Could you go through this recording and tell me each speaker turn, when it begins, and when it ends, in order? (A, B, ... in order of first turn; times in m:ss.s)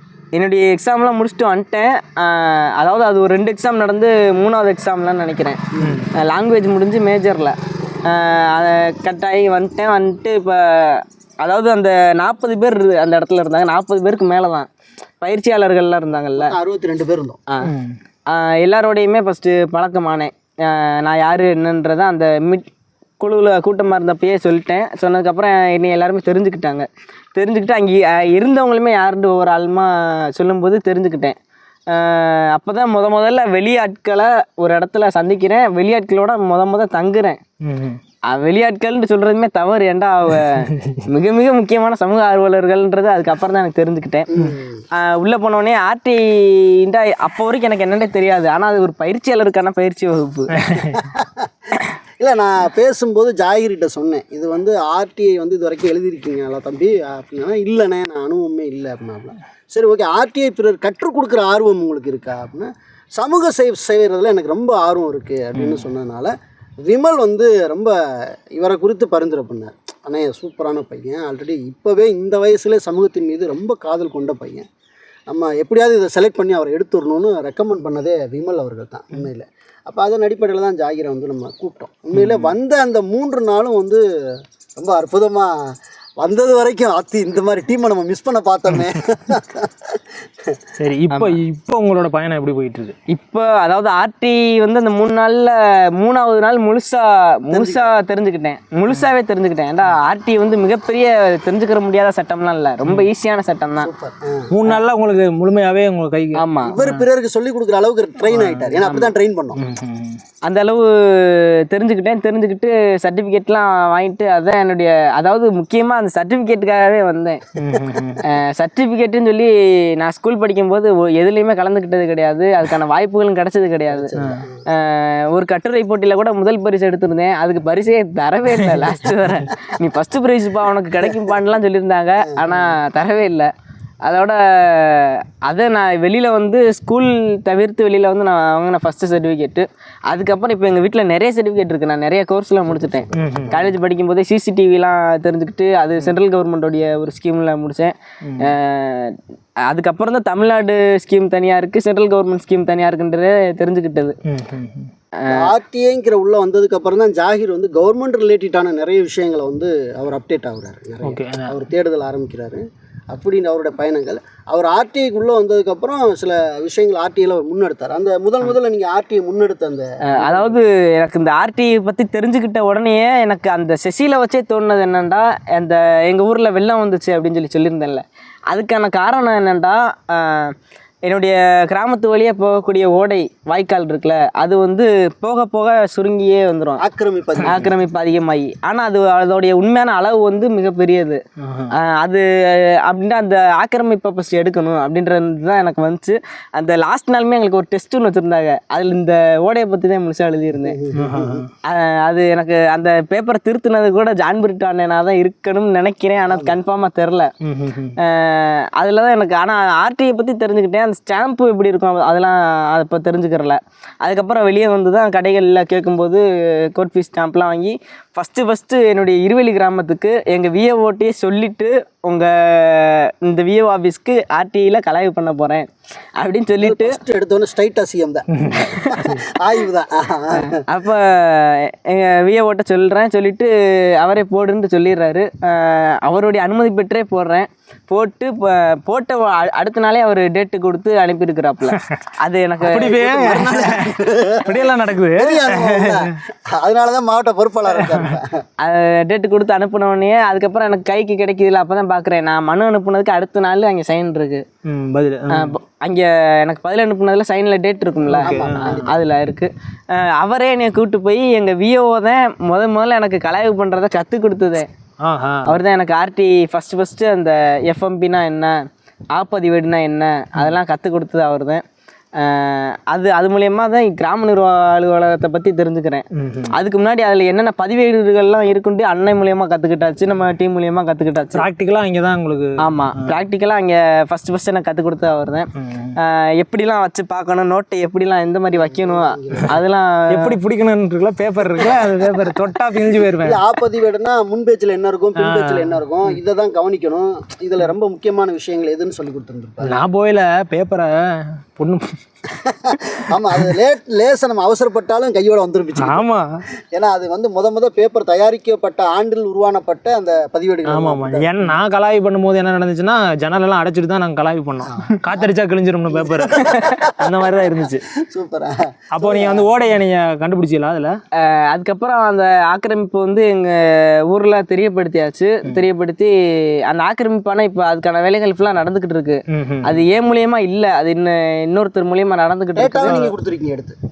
0:00.3-0:05.6 A
0:05.8-0:06.1 B
0:06.1-0:14.7 A
0:15.2-0:16.5 A
0:16.4-0:17.4 C
0:17.6-0:18.0 B
0:18.3-0:22.7 A
0:23.2-0:31.4 A
0:31.9-0:37.4 A
0:37.6-0:38.0 B
0:38.3-0:44.3 A
0:44.3-0:44.8 C
0:44.9-0:50.6 A
0:50.6-0:51.0 B
0:50.9-0:51.5 C
0:52.2-1:07.9 C
1:05.6-1:05.9 B
1:08.5-1:14.6 C
1:15.3-1:24.0 C
1:22.1-1:22.5 B
1:24.8-1:25.5 C
1:26.2-1:30.0 C
1:30.8-1:32.9 B
1:31.1-1:31.4 A
1:33.1-1:43.9 A
1:37.5-1:37.9 C
1:43.8-1:44.5 C
1:44.5-1:47.0 B
1:46.4-1:46.8 A
1:46.6-1:49.6 C
1:48.3-1:48.8 B
1:48.8-1:49.1 A
1:49.6-1:50.2 B
1:50.4-1:57.4 A
1:57.6-1:58.2 B
1:58.2-2:04.2 A
2:03.9-2:04.5 C
2:04.2-2:04.4 B
2:04.7-2:13.5 A
2:12.2-2:12.7 C
2:14.0-2:29.1 A
2:22.7-2:23.7 C
2:23.1-2:23.6 B
2:28.2-2:28.5 B
2:29.7-2:34.1 A
2:34.2-2:34.9 B
2:35.2-2:35.5 A
2:35.3-2:50.6 C
2:41.0-2:41.5 B
2:50.2-3:00.5 A
3:01.1-3:06.8 A
3:06.8-3:07.7 C
3:07.4-3:11.2 A
3:11.4-3:11.7 B
3:11.7-3:20.8 A
3:20.6-3:21.4 C
3:20.9-3:21.5 B
3:21.6-3:27.3 A
3:26.3-3:26.6 C
3:27.4-3:27.9 B
3:28.0-3:45.6 A
3:46.2-3:47.0 A
3:46.6-3:48.2 C
3:48.3-3:48.8 B
3:48.5-3:49.1 A
3:48.8-3:50.5 C
3:50.4-4:03.6 A
4:02.6-4:03.9 B
4:03.0-4:04.6 C
4:04.4-4:06.1 B
4:05.1-4:08.4 C
4:07.8-4:08.2 B
4:08.6-4:14.4 A
4:14.6-4:15.5 B
4:15.3-4:24.6 A
4:18.1-4:18.8 B
4:18.2-4:19.0 C
4:25.0-4:25.6 B
4:25.4-4:28.6 A
4:29.1-4:31.6 A
4:32.2-4:41.4 A
4:36.1-4:36.5 B
4:41.4-4:43.1 B
4:42.6-4:45.5 A
4:45.6-4:45.9 B
4:46.0-4:50.4 A
4:48.5-4:49.6 C
4:50.1-4:53.4 B
4:53.2-4:59.8 C
4:55.2-4:56.2 B
4:59.6-5:01.8 B
5:02.4-5:06.0 C
5:05.8-5:06.2 B
5:06.7-5:11.6 C
5:10.7-5:17.8 B
5:14.6-5:15.3 C
5:15.9-5:17.1 C
5:16.4-5:16.8 A
5:18.0-5:19.5 C
5:18.9-5:20.9 B
5:21.2-5:26.1 A
5:26.7-5:33.0 A
5:29.3-5:29.8 B
5:32.6-5:33.7 C
5:32.8-5:33.1 B